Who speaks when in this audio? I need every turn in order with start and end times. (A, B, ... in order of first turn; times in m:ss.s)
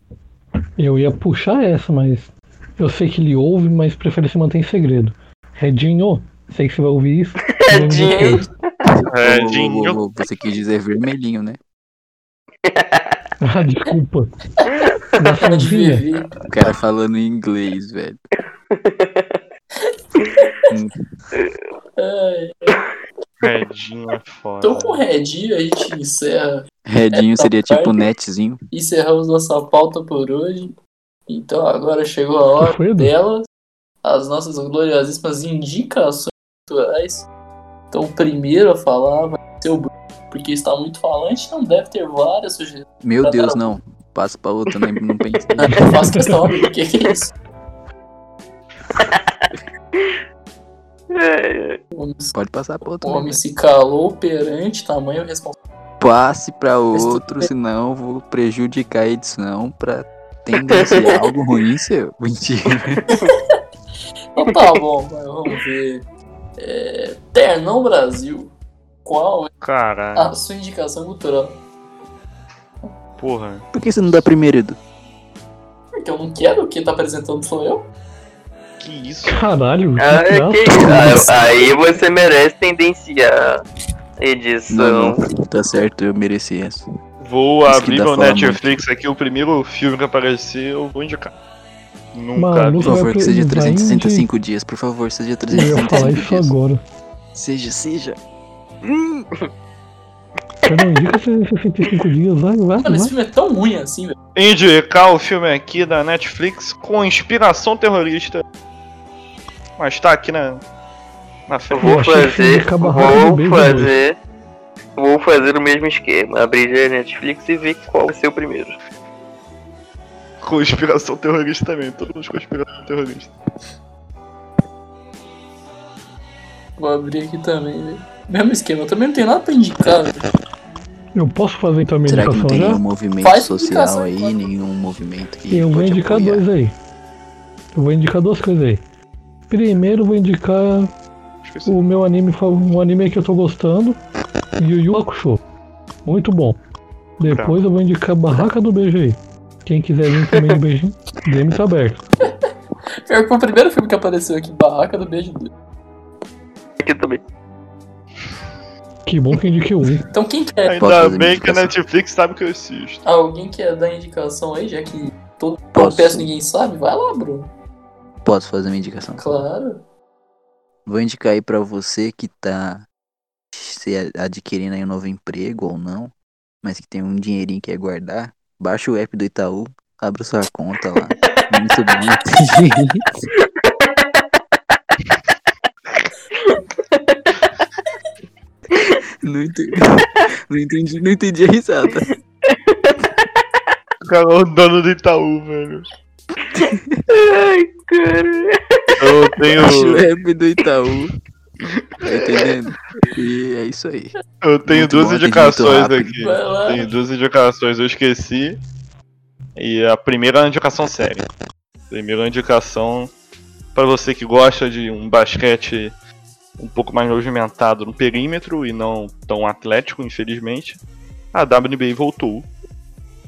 0:00.8-0:08.5 A
0:07.5-0:08.5 B
0:09.1-0:10.0 C
0:09.2-0:11.6 D
0:12.6-0:13.2 B
0:13.4-0:14.3 A
0:14.7-0:15.0 B
0:15.2-0:16.0 A
0:15.4-0:16.3 E
0:16.5-0:18.2 D
0:18.7-0:19.4 B
0:20.3-0:20.7 E
0:20.7-0:21.0 D
0:22.0-0:22.8 E
0:23.4-0:25.0 C
0:24.6-0:28.0 E
0:26.9-0:28.6 D
0:28.7-0:30.7 E
0:31.3-0:33.5 E
0:32.6-0:33.1 A
0:34.0-0:37.3 E
0:37.9-0:43.7 E
0:43.0-0:46.1 D
0:45.6-0:47.3 E
0:45.8-0:46.3 A
0:49.0-0:49.4 B
0:49.9-0:50.2 B
0:51.1-0:51.8 B
0:51.9-0:52.4 E
0:52.3-0:53.4 D
0:53.0-0:55.6 E
0:56.0-1:03.0 D
0:56.9-0:57.5 E
1:00.5-1:01.3 B
1:03.0-1:03.3 B
1:03.1-1:03.4 E
1:04.4-1:06.0 E
1:04.4-1:04.7 B
1:06.6-1:08.5 E
1:09.0-1:09.5 E
1:09.6-1:10.3 C
1:10.2-1:11.6 E
1:13.2-1:13.7 C
1:13.7-1:14.8 D
1:16.0-1:17.9 E
1:18.8-1:19.4 C
1:19.3-1:21.3 A
1:20.0-1:23.6 B
1:24.2-1:25.2 B
1:24.7-1:26.9 D
1:27.2-1:31.3 C
1:27.7-1:28.8 D
1:32.1-1:32.9 C
1:32.4-1:34.3 A
1:32.8-1:36.5 D
1:35.5-1:36.8 A
1:35.8-1:36.1 E
1:37.4-1:38.2 D
1:38.9-1:39.2 D
1:40.6-1:43.1 A
1:42.8-1:44.2 E
1:44.4-1:48.4 C
1:49.8-1:50.6 C
1:51.5-1:52.0 C
1:51.7-1:54.2 B
1:51.8-1:53.9 A
1:55.0-1:58.8 B
2:00.4-2:03.3 C
2:06.8-2:10.2 E
2:11.2-2:12.8 A
2:12.1-2:16.4 D
2:13.2-2:14.3 E
2:15.5-2:16.7 A
2:17.8-2:18.8 A
2:19.5-2:20.9 A
2:21.4-2:21.8 C
2:21.7-2:24.0 A
2:24.6-2:25.4 A
2:26.0-2:26.6 A
2:27.2-2:32.0 A
2:27.2-2:27.6 C
2:33.1-2:35.5 E
2:36.8-2:37.2 B
2:39.1-2:40.1 A
2:40.1-2:40.9 E
2:40.7-2:43.0 C
2:40.8-2:41.7 D
2:43.0-2:47.5 E
2:45.8-2:46.3 D
2:48.2-2:49.3 D
2:49.2-2:49.8 E
2:50.9-2:52.9 D
2:53.5-3:03.0 D
3:03.4-3:04.2 B
3:06.4-3:07.4 B
3:09.2-3:12.1 D
3:12.5-3:13.4 B
3:14.0-3:15.9 C
3:16.6-3:17.0 D
3:17.1-3:19.6 B
3:19.0-3:20.1 C
3:19.5-3:21.1 D
3:21.6-3:22.4 C
3:22.0-3:24.1 D
3:24.4-3:28.6 C
3:24.7-3:26.3 D
3:26.2-3:26.9 E
3:29.6-3:31.3 C
3:31.9-3:33.1 C
3:33.8-3:35.9 C
3:36.6-3:40.8 C
3:41.3-3:42.5 C